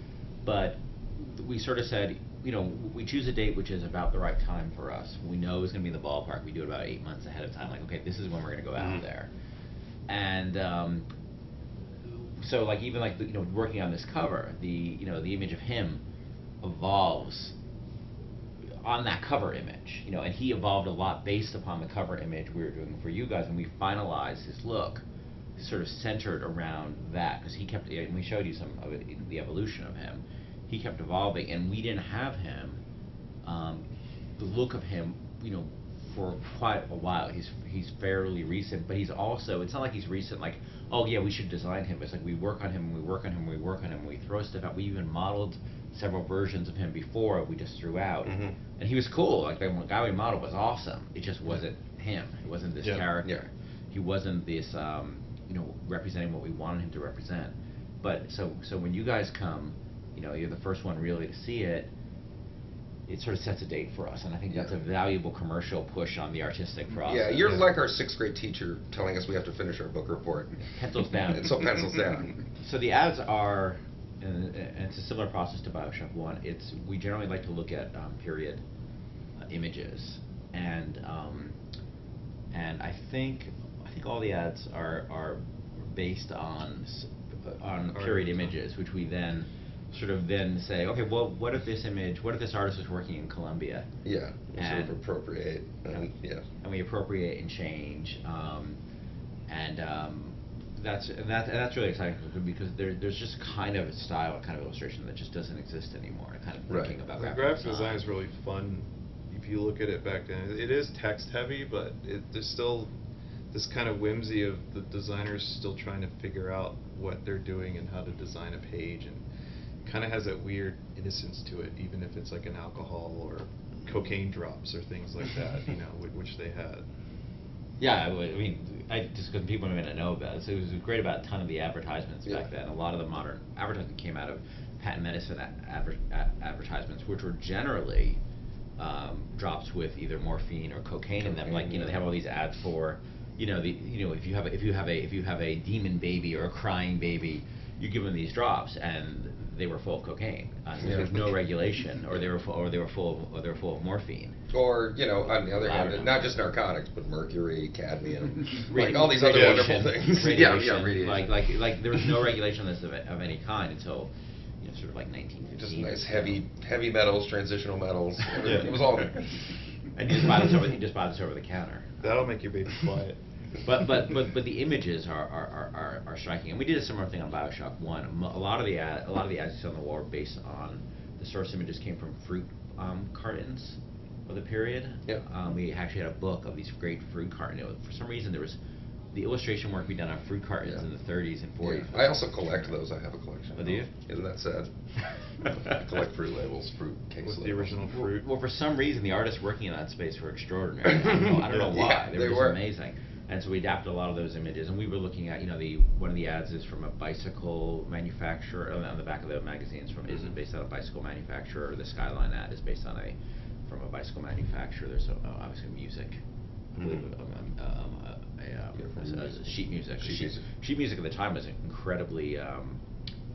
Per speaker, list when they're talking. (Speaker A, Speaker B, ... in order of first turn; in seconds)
Speaker A: 0.4-9.3, 10.1-11.0, 12.0-16.0, 16.6-17.5, 18.8-25.0, 25.6-32.8, 33.4-61.9, 63.1-67.7, 70.6-71.6, 72.6-78.6, 79.4-81.5, 82.5-93.9, 94.5-95.0, 95.9-98.8, 99.5-108.0, 127.8-138.2, 138.8-154.4, 155.3-156.4, 158.5-166.4, 168.4-168.8, 169.8-171.9, 173.6-188.6, 189.1-192.8, 193.6-193.9, 197.9-216.2, 216.8-222.8
Speaker B: 8.8-9.0, 48.2-48.6, 64.5-64.7, 67.0-70.6, 71.2-72.3, 94.0-96.4, 106.7-107.0, 141.2-142.0, 150.8-151.3, 154.5-161.3, 165.6-169.5, 191.6-194.7, 195.4-197.8, 200.8-202.6, 216.8-217.1, 218.8-219.3, 220.0-220.4
Speaker C: 52.8-53.1, 87.9-88.5, 107.1-112.9, 113.5-119.2, 119.8-126.8, 159.3-159.7, 168.4-168.7, 172.0-173.2, 197.2-198.2